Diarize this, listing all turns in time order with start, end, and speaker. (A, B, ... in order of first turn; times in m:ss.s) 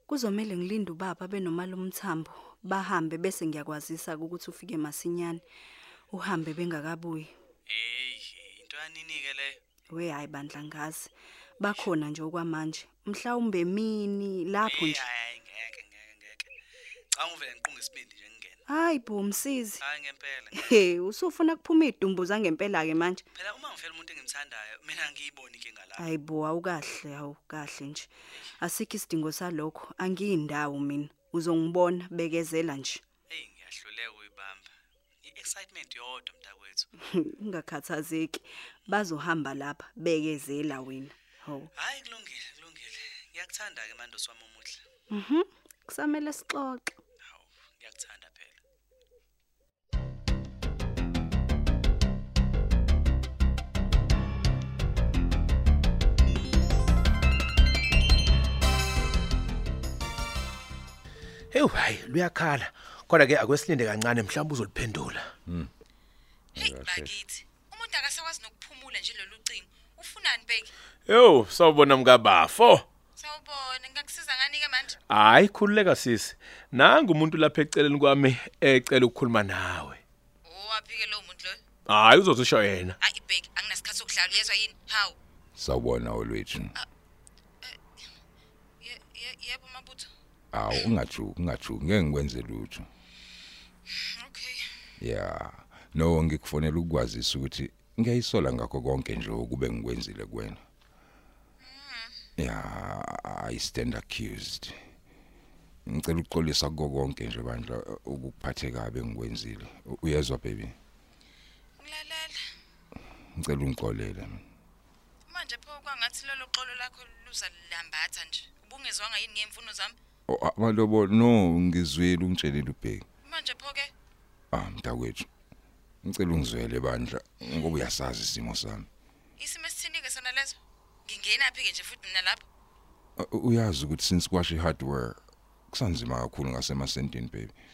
0:00.1-0:05.4 A
0:06.1-0:07.3 A
0:07.7-0:09.6 B
0:09.9-0:15.1 A
0:14.6-0:16.5 B
0:17.1-0:18.6 B
0:18.7-0:19.8 A
0:19.8-0:20.8 B
0:20.6-0:23.2 A
0:23.4-0:26.1 B
0:26.0-0:28.1 A
0:28.6-0:33.0 A
0:33.3-0:34.7 B
0:35.2-0:36.9 B
0:37.0-0:41.7 A
0:41.8-0:44.8 B
0:45.1-0:46.9 A
0:47.2-0:48.6 B
1:01.5-1:05.2 C
1:06.6-1:07.2 D
1:06.6-1:10.7 E
1:11.1-1:12.8 C
1:13.2-1:15.0 E
1:15.1-1:20.0 C
1:20.4-1:21.6 E
1:21.9-1:23.0 C
1:23.0-1:25.2 E
1:25.6-1:26.7 D
1:28.8-1:30.1 E
1:30.5-1:32.9 D
1:33.9-1:34.7 E
1:35.0-1:40.6 D
1:41.6-1:42.2 E
1:42.4-1:44.8 D
1:45.9-1:50.8 D
1:51.8-1:52.4 E
1:53.4-1:54.4 D
1:55.3-2:00.0 E
2:00.3-2:03.0 D
2:03.2-2:03.9 E
2:04.5-2:05.3 D
2:06.0-2:08.9 D
2:09.4-2:12.4 E
2:13.2-2:15.2 D
2:15.7-2:17.5 D